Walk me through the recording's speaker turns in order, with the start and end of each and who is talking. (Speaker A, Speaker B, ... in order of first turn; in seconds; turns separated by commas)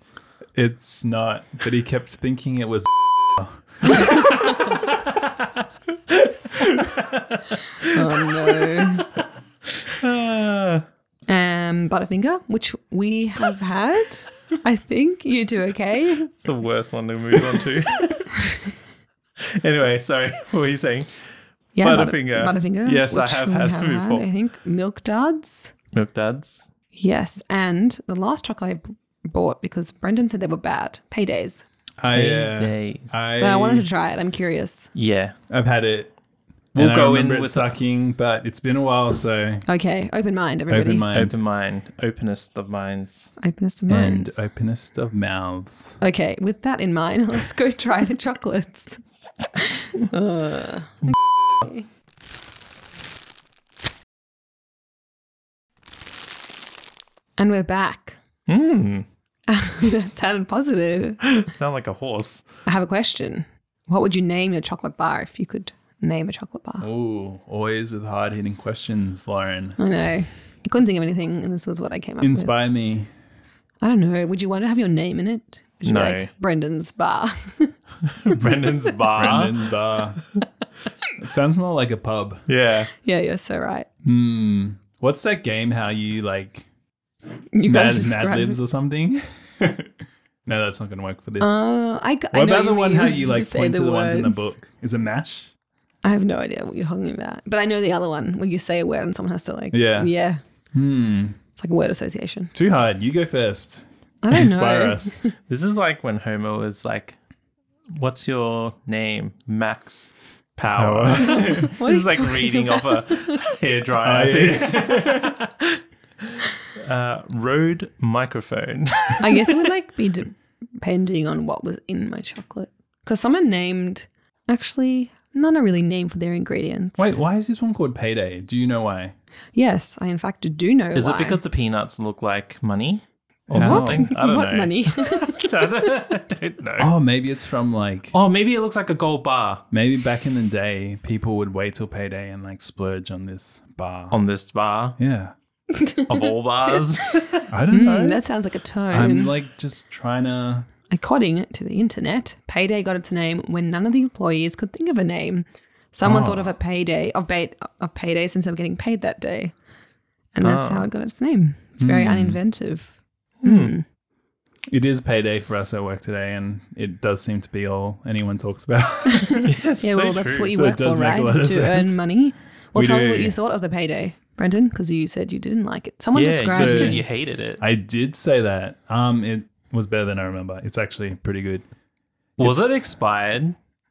Speaker A: 0.5-4.5, Speaker B: 6.1-9.1, Speaker C: 7.8-9.1, Speaker B: 9.8-10.8, Speaker C: 11.3-16.3, Speaker B: 16.4-18.5, Speaker B: 19.4-21.2, Speaker B: 21.8-24.3, Speaker C: 21.8-25.7, Speaker B: 25.9-26.7, Speaker C: 26.9-31.6, Speaker A: 32.0-33.9, Speaker B: 32.1-33.2, Speaker C: 33.3-34.9, Speaker B: 34.9-35.4, Speaker A: 35.5-36.1, Speaker B: 36.8-37.7, Speaker A: 36.8-39.7, Speaker C: 39.7-41.1, Speaker A: 40.7-41.4, Speaker B: 41.1-43.3, Speaker C: 43.4-44.4, Speaker A: 43.9-46.0, Speaker C: 46.0-49.0, Speaker C: 49.5-51.9, Speaker C: 57.4-58.2, Speaker B: 58.5-59.1, Speaker C: 59.5-61.3, Speaker B: 61.4-62.5, Speaker C: 62.7-66.9, Speaker A: 66.8-69.8, Speaker C: 69.8-72.5, Speaker A: 72.2-73.1, Speaker C: 73.8-77.8, Speaker B: 75.8-76.3, Speaker B: 78.1-79.7, Speaker C: 78.4-78.9, Speaker A: 79.1-80.2, Speaker A: 81.2-82.5, Speaker B: 82.5-82.9, Speaker C: 83.0-83.9, Speaker A: 84.0-86.7, Speaker C: 87.5-88.6, Speaker A: 87.7-91.5, Speaker C: 91.4-94.5, Speaker A: 92.3-95.5, Speaker C: 96.0-100.4, Speaker A: 99.7-100.1, Speaker A: 100.7-101.4, Speaker C: 101.6-102.5, Speaker A: 102.5-105.2, Speaker C: 104.2-105.3, Speaker B: 105.5-107.2, Speaker B: 107.9-115.8, Speaker A: 110.7-111.7, Speaker C: 111.2-113.4, Speaker A: 114.0-115.4, Speaker B: 116.7-119.7, Speaker C: 119.2-127.1, Speaker A: 127.0-129.1, Speaker C: 129.6-131.4, Speaker B: 130.9-136.9, Speaker A: 133.5-134.1, Speaker C: 133.6-135.9, Speaker A: 136.8-138.2, Speaker B: 138.1-139.7, Speaker A: 139.7-144.2, Speaker B: 144.1-145.0, Speaker A: 145.0-145.3, Speaker C: 145.7-146.7, Speaker B: 146.1-147.5, Speaker A: 147.5-148.2, Speaker C: 147.7-149.4, Speaker A: 148.9-150.7, Speaker C: 150.9-159.5, Speaker A: 156.0-156.5, Speaker C: 160.3-163.8, Speaker B: 160.4-160.9, Speaker A: 161.8-162.4, Speaker B: 163.4-163.8, Speaker A: 164.7-169.5, Speaker C: 169.1-177.0, Speaker B: 169.4-170.5, Speaker A: 170.5-172.0, Speaker A: 172.8-173.3, Speaker B: 176.1-177.6, Speaker A: 176.5-177.1, Speaker A: 177.6-181.7, Speaker A: 182.4-182.8, Speaker B: 182.4-183.6